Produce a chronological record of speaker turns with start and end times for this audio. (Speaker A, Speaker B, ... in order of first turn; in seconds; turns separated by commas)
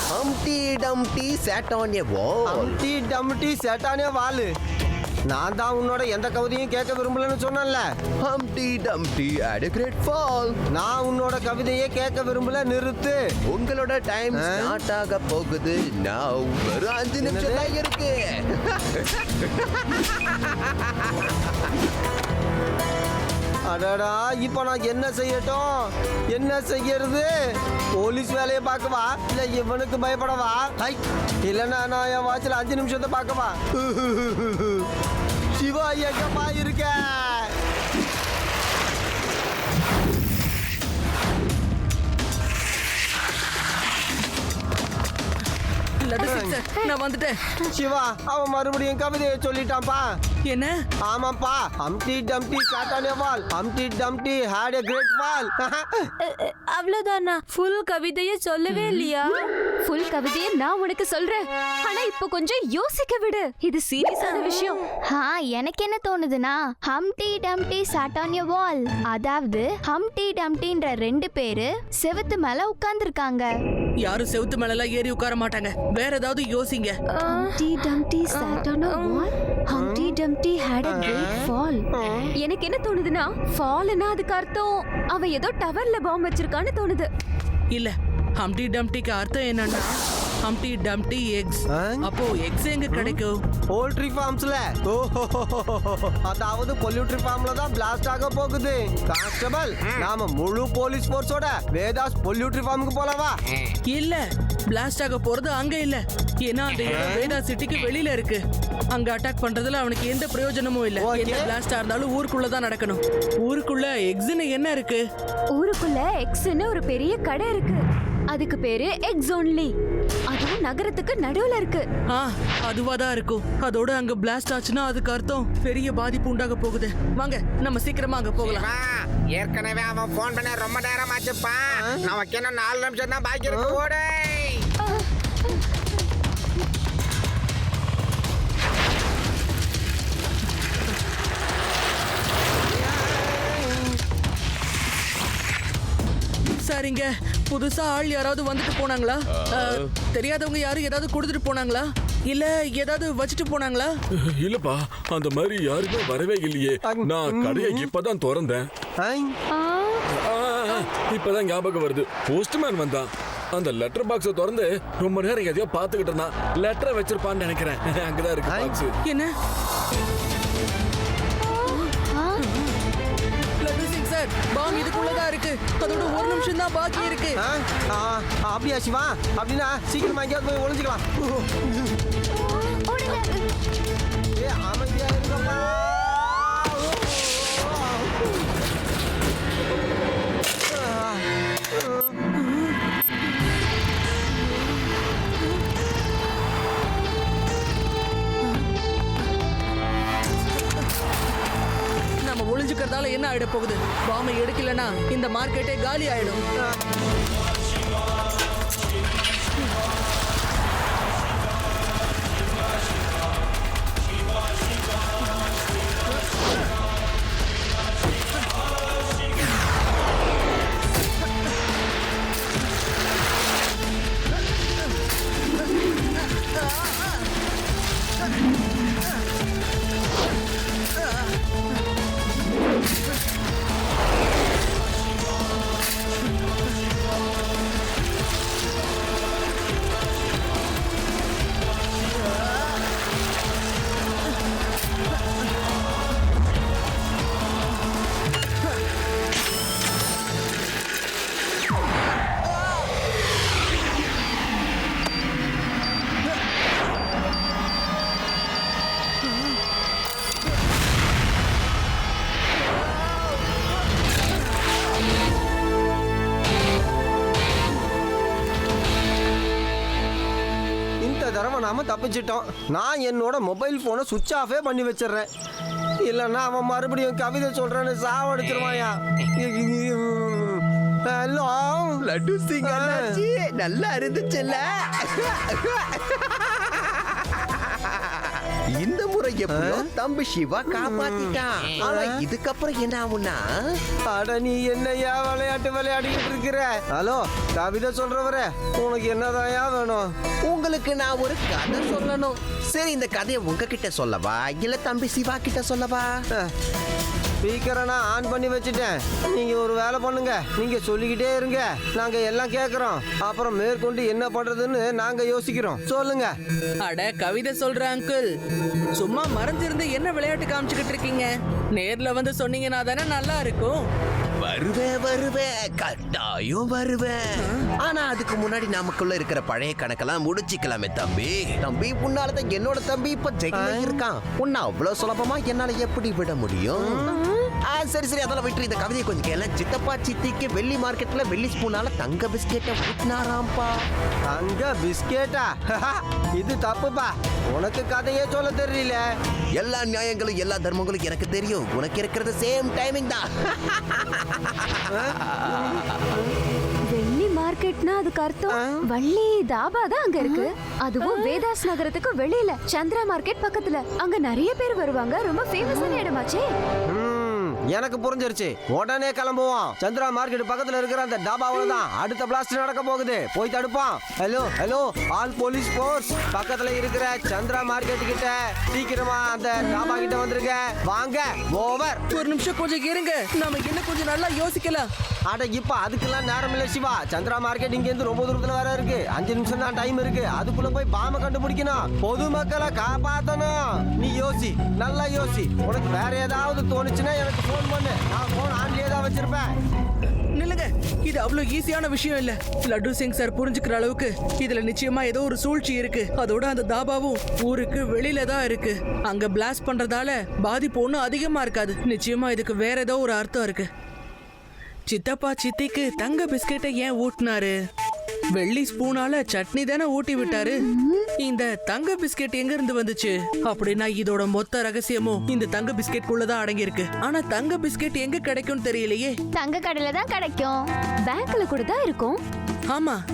Speaker A: 0.1-2.7, Speaker B: 2.5-4.5, Speaker B: 5.3-7.9, Speaker A: 8.2-10.6, Speaker B: 10.7-13.2, Speaker A: 13.5-21.6, Speaker B: 14.3-14.8, Speaker B: 17.2-17.7, Speaker B: 23.7-27.3, Speaker B: 28.0-34.8, Speaker B: 35.5-37.5, Speaker C: 46.0-47.4, Speaker B: 46.2-46.6, Speaker B: 47.6-50.1, Speaker C: 50.5-50.8, Speaker B: 51.1-56.0, Speaker D: 56.2-59.4, Speaker E: 59.9-64.8, Speaker F: 65.1-73.5, Speaker C: 74.0-77.0, Speaker E: 77.3-81.9, Speaker D: 78.4-79.2, Speaker B: 79.7-80.2, Speaker B: 80.8-82.3, Speaker E: 82.4-87.1, Speaker C: 87.7-89.9, Speaker C: 90.5-93.4, Speaker B: 91.7-92.0, Speaker B: 93.7-103.4, Speaker C: 103.9-108.4, Speaker B: 106.9-107.3, Speaker C: 108.9-115.0, Speaker B: 111.0-111.5, Speaker E: 115.5-119.7, Speaker E: 120.3-121.8, Speaker C: 122.1-128.7, Speaker G: 128.5-134.7, Speaker B: 131.7-132.1, Speaker B: 133.4-133.8, Speaker C: 146.6-153.9, Speaker H: 154.2-158.7, Speaker B: 156.8-157.9, Speaker B: 159.0-159.3, Speaker H: 160.1-168.9, Speaker B: 168.4-168.8, Speaker C: 169.0-169.3, Speaker F: 171.8-172.4, Speaker C: 172.4-172.7, Speaker C: 173.6-177.4, Speaker B: 177.4-181.7, Speaker E: 182.5-183.4, Speaker B: 184.4-188.4, Speaker B: 190.7-192.2, Speaker C: 192.4-192.7, Speaker C: 202.2-206.4, Speaker B: 271.0-275.3, Speaker B: 276.0-282.0, Speaker A: 282.0-293.8, Speaker B: 282.6-283.2, Speaker B: 289.5-289.9, Speaker B: 290.7-292.2, Speaker B: 294.1-300.1, Speaker A: 300.4-306.2, Speaker B: 307.4-316.3, Speaker C: 316.8-318.3, Speaker C: 319.0-323.8, Speaker A: 324.4-337.1, Speaker C: 327.4-327.7, Speaker B: 333.5-334.0, Speaker B: 336.8-337.2, Speaker A: 337.7-343.9, Speaker B: 344.3-349.0, Speaker A: 349.6-355.8, Speaker B: 354.9-355.8, Speaker E: 356.9-366.5, Speaker F: 360.2-360.5, Speaker F: 365.6-366.0, Speaker B: 366.9-382.0, Speaker C: 382.1-384.9, Speaker B: 385.3-399.6, Speaker C: 400.4-413.7, Speaker C: 414.9-417.6, Speaker C: 418.3-420.7, Speaker F: 420.3-421.1, Speaker C: 421.2-429.1, Speaker F: 429.3-430.7, Speaker E: 431.1-432.2, Speaker C: 432.7-433.0